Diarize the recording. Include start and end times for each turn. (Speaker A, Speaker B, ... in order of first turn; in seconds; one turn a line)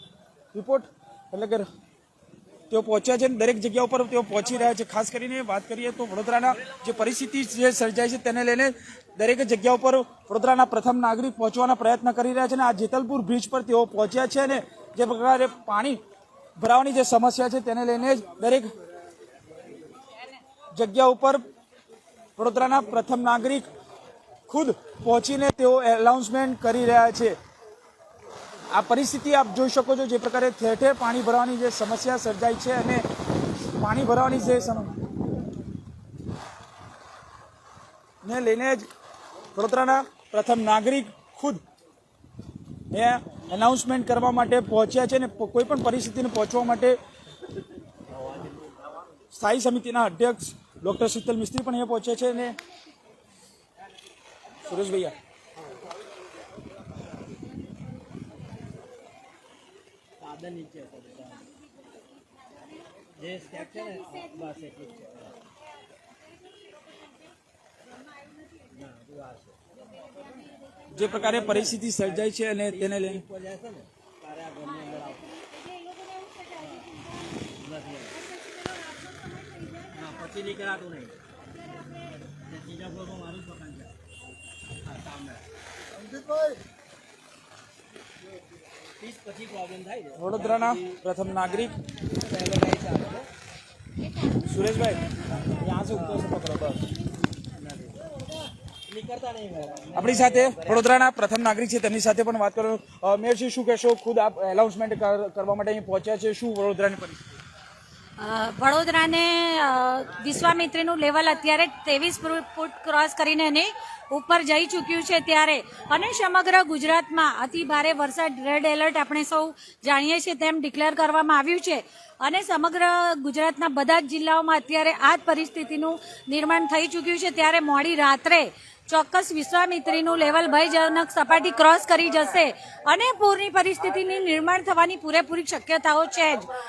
Speaker A: 0.5-1.7
Speaker A: 2.7-16.0
Speaker A: 16.6-18.7
Speaker A: 20.7-21.4
Speaker A: 22.4-23.7
Speaker A: 24.5-27.4
Speaker A: 28.7-33.0
Speaker A: 33.8-35.0
Speaker A: 38.2-38.9
Speaker A: 39.5-41.6
Speaker A: 42.9-47.0
Speaker A: 49.3-52.6
Speaker A: 54.6-55.1
Speaker B: 60.2-61.5
Speaker B: 63.2-65.3
Speaker B: 68.7-69.5
Speaker A: 70.9-73.3
Speaker B: 71.0-72.0
Speaker B: 72.7-75.2
Speaker C: 74.7-80.5
Speaker B: 77.6-78.1
Speaker B: 80.0-81.2
Speaker C: 81.5-82.2
Speaker B: 82.4-83.9
Speaker B: 84.8-85.4
Speaker B: 86.0-86.5
Speaker B: 89.0-90.8
Speaker A: 90.2-91.8
Speaker B: 92.1-93.3
Speaker A: 94.4-96.8
Speaker B: 95.8-96.4
Speaker B: 98.9-100.8
Speaker A: 99.9-107.4
Speaker C: 108.2-136.5